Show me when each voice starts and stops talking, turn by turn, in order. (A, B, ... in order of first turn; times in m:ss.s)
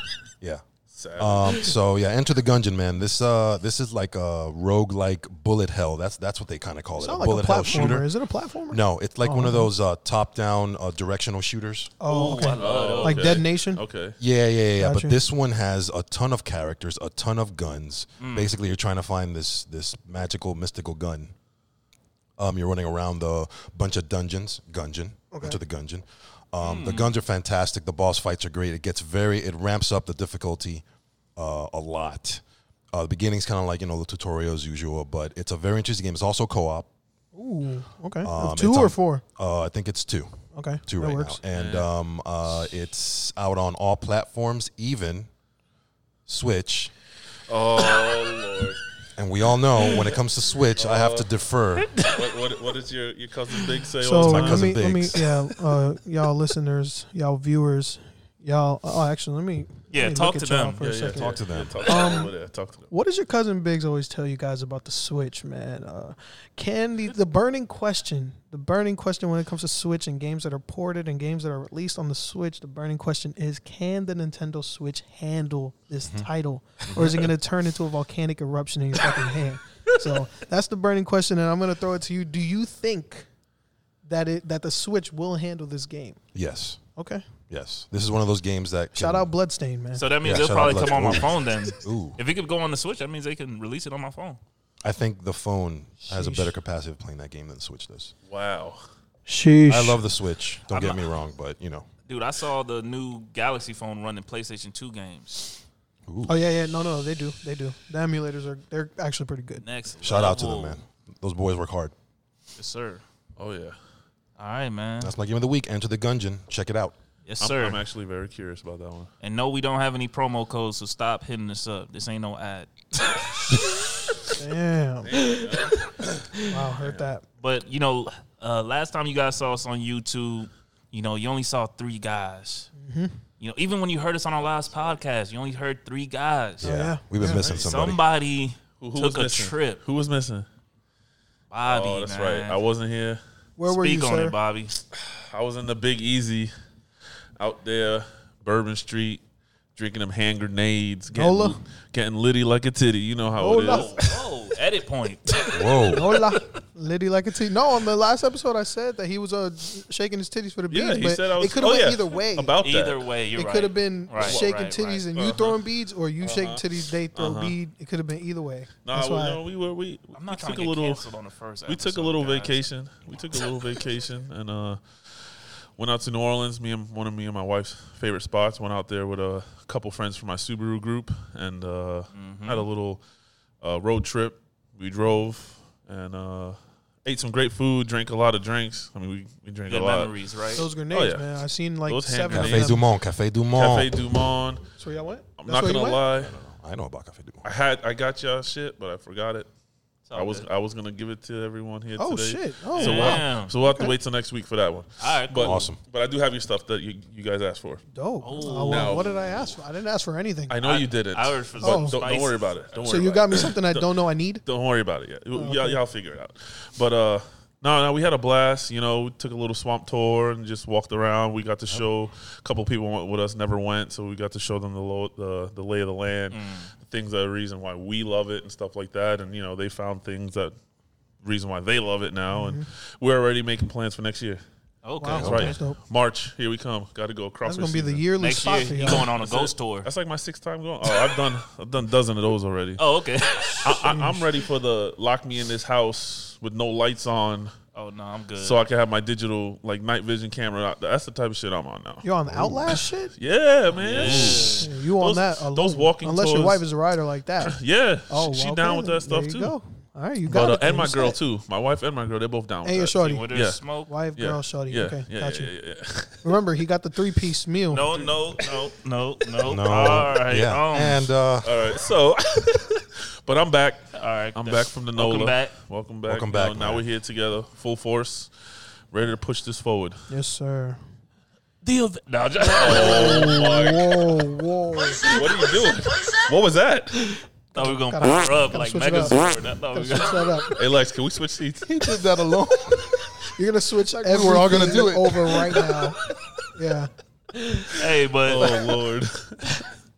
0:00.9-0:01.7 A
0:01.2-0:08.1 B
0:07.0-0:09.7 C
0:08.7-0:11.9 B
0:12.0-0:13.8 C
0:12.0-0:13.4 D
0:12.6-0:14.2 A
0:14.2-0:21.3 B
0:14.8-0:15.2 C
0:18.2-0:18.5 D
0:22.4-0:30.8 B
0:25.3-0:25.6 C
0:26.6-0:27.1 D
0:31.4-0:36.9 B
0:37.3-0:39.2 C
0:38.2-0:40.3 B
0:40.5-0:41.4 C
0:40.8-0:45.3 B
0:41.5-0:41.9 D
0:46.3-0:46.9 B
0:47.5-0:48.8 A
0:49.2-0:52.0 B
0:49.9-0:50.2 A
0:50.7-0:51.3 A
0:52.0-0:54.7 A
0:54.0-1:01.3 C
0:54.2-0:55.2 B
0:59.9-1:00.9 D
1:00.8-1:02.9 A
1:01.1-1:01.8 B
1:01.8-1:02.3 C
1:02.9-1:23.3 C
1:16.0-1:16.3 B
1:16.8-1:17.2 B
1:24.0-1:26.2 C
1:26.3-1:26.8 B
1:27.0-1:27.2 C
1:27.5-1:29.3 B
1:29.0-1:30.1 C
1:29.9-1:34.4 D
1:30.2-1:32.2 B
1:34.8-1:38.1 B
1:36.1-1:36.5 C
1:38.3-1:38.8 A
1:39.2-1:40.0 C
1:39.7-1:41.9 B
1:40.7-1:41.0 D
1:42.1-1:45.6 D
1:46.1-1:46.3 B
1:46.3-1:49.6 C
1:49.6-1:50.8 D
1:50.0-1:51.9 B
1:52.6-1:53.0 D
1:53.4-1:53.8 A
1:54.4-1:55.1 D
1:55.0-1:56.9 B
1:57.2-1:57.8 D
1:57.4-1:59.1 A
1:59.2-2:02.7 D
2:04.2-2:05.4 C
2:05.0-2:07.1 A
2:06.4-2:07.2 C
2:07.4-2:12.7 D
2:12.8-2:13.2 C
2:13.4-2:19.8 D
2:16.6-2:18.0 B
2:16.6-2:17.5 C
2:18.8-2:20.4 A
2:21.5-2:22.6 D
2:21.7-2:23.2 A
2:23.6-2:24.4 C
2:23.6-2:24.7 D
2:24.9-2:26.5 A
2:27.4-2:29.2 A
2:29.8-2:34.0 A
2:31.1-2:31.6 C
2:33.4-2:34.0 C
2:33.6-2:35.4 D
2:35.5-2:36.2 B
2:35.9-2:42.6 C
2:40.7-2:43.0 A
2:42.6-2:45.1 D
2:43.3-2:49.4 C
2:44.2-2:44.5 A
2:45.1-2:45.6 A
2:46.2-2:46.6 A
2:47.1-2:47.6 A
2:48.8-2:51.0 A
2:50.1-2:52.6 D
2:51.7-2:54.8 A
2:55.8-3:03.0 A
3:02.1-3:02.6 D
3:03.6-3:10.1 A
3:09.7-3:10.6 D
3:10.5-3:12.8 C
3:10.9-3:12.8 A
3:12.3-3:14.0 B
3:13.5-3:14.7 A
3:14.8-3:16.0 C
3:15.4-3:16.4 A
3:16.1-3:17.4 B
3:17.4-3:19.5 A
3:20.1-3:20.4 D
3:20.1-3:27.8 A
3:22.0-3:23.9 C
3:22.7-3:23.5 D
3:25.0-3:25.7 D
3:25.4-3:25.8 B
3:27.9-3:30.6 C
3:28.2-3:29.1 D
3:28.6-3:29.6 A
3:30.5-3:50.5 A
3:30.6-3:33.1 D
3:31.6-3:32.0 C
3:32.8-3:34.4 C
3:35.4-3:35.8 C
3:46.3-3:46.7 D
3:51.2-3:54.4 A
3:52.3-3:52.6 C
3:54.8-3:55.6 D
3:55.0-3:55.8 C
3:55.1-3:55.5 B
3:55.1-3:58.0 A
3:57.4-3:59.1 C
3:58.2-3:59.9 D
3:58.8-4:02.8 A
4:02.8-4:03.9 D
4:03.6-4:07.5 A
4:03.8-4:04.2 C
4:07.7-4:08.6 D
4:08.4-4:12.0 A
4:12.0-4:13.1 C
4:12.2-4:12.8 B
4:13.2-4:16.6 A
4:13.8-4:14.7 D
4:13.8-4:14.5 B
4:14.5-4:17.6 C
4:17.4-4:19.5 A
4:18.1-4:21.2 C
4:20.2-4:23.6 A
4:22.6-4:25.5 C
4:23.0-4:23.9 D
4:24.2-4:26.4 A
4:26.2-4:28.1 C
4:27.7-4:31.0 D
4:29.4-4:31.6 B
4:31.4-4:38.3 A
4:33.9-4:35.5 D
4:36.1-4:36.8 B
4:38.9-4:40.0 A
4:40.1-4:40.8 C
4:41.6-4:43.4 D
4:42.5-4:45.2 C
4:42.5-4:44.1 A
4:45.0-4:47.2 A
4:47.5-4:50.4 D
4:47.5-4:50.6 C
4:50.5-4:51.7 A
4:51.6-4:53.2 B
4:53.3-4:56.0 C
4:54.0-4:55.9 B
4:56.5-4:56.9 C
4:57.7-4:58.6 D
4:58.2-4:59.6 A